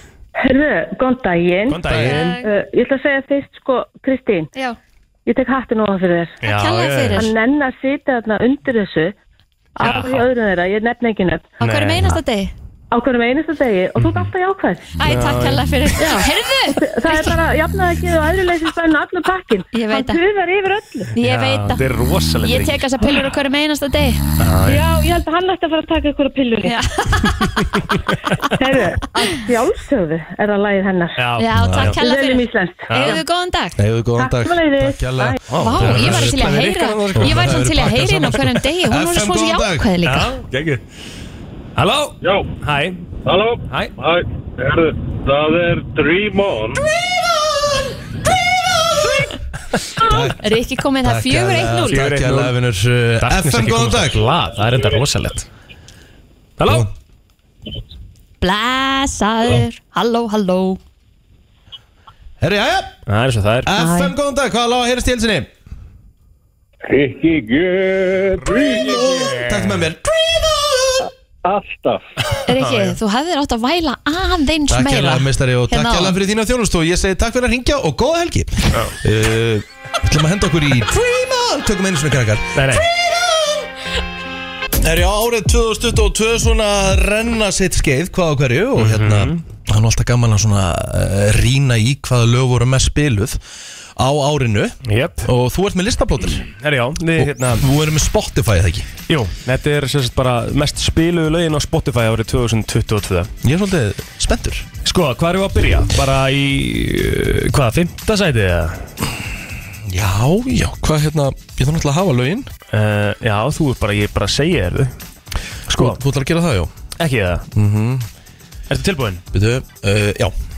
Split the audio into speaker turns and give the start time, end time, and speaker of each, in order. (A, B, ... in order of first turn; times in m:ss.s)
0:00.4-0:04.5 A
0:01.7-0:02.4 B
0:02.0-0:02.5 C
0:05.2-0:06.4 A
0:06.4-0:07.3 B
0:06.4-0:07.3 C
0:07.2-0:09.1 A
0:09.8-0:11.5 A
0:09.8-0:10.3 B
0:11.6-0:12.5 C
0:11.6-0:12.2 B
0:12.9-0:14.9 A
0:14.0-0:14.3 B
0:15.0-0:17.4 C
0:15.0-0:15.7 B
0:16.0-0:21.1 A
0:19.7-0:20.2 C
0:21.1-0:21.8 C
0:21.2-0:22.8 B
0:22.4-0:24.2 C
0:24.4-0:24.8 B
0:24.6-0:26.8 A
0:26.6-0:27.8 C
0:28.6-0:31.2 A
0:31.2-0:32.0 B
0:31.4-0:33.8 C
0:31.6-0:31.9 D
0:32.0-0:33.2 A
0:32.9-0:33.2 B
0:33.8-0:36.6 D
0:34.2-0:35.4 A
0:35.5-0:37.7 B
0:35.6-0:40.4 C
0:37.1-0:39.9 D
0:40.0-0:40.8 B
0:41.8-0:43.0 B
0:43.7-0:43.9 B
0:46.3-0:46.7 E
0:46.8-0:48.0 D
0:48.7-0:49.1 D
0:50.0-0:50.5 D
0:50.3-0:52.0 C
0:51.0-0:54.2 D
0:51.8-0:52.5 B
0:53.2-0:55.5 B
0:56.6-0:56.9 B
0:58.4-1:00.8 C
1:02.4-1:02.9 D
1:03.1-1:03.7 B
1:03.6-1:05.5 D
1:03.8-1:04.1 C
1:06.9-1:08.7 E
1:08.4-1:09.8 B
1:08.5-1:11.1 D
1:11.5-1:11.9 E
1:12.5-1:16.2 C
1:12.5-1:13.0 B
1:14.7-1:23.7 D
1:22.5-1:22.8 B
1:24.8-1:33.4 D
1:28.8-1:29.4 B
1:34.0-1:36.4 D
1:34.8-1:35.3 B
1:36.3-1:37.6 B
1:37.2-1:38.9 D
1:39.1-1:43.3 B
1:43.4-1:44.6 D
1:44.8-1:48.9 B
1:49.9-1:52.5 D
1:52.7-1:54.9 B
1:55.7-1:56.0 B
1:55.7-1:56.7 D
1:57.0-1:57.4 B
1:57.5-1:58.1 D
1:58.7-1:59.2 B
1:59.3-2:00.3 D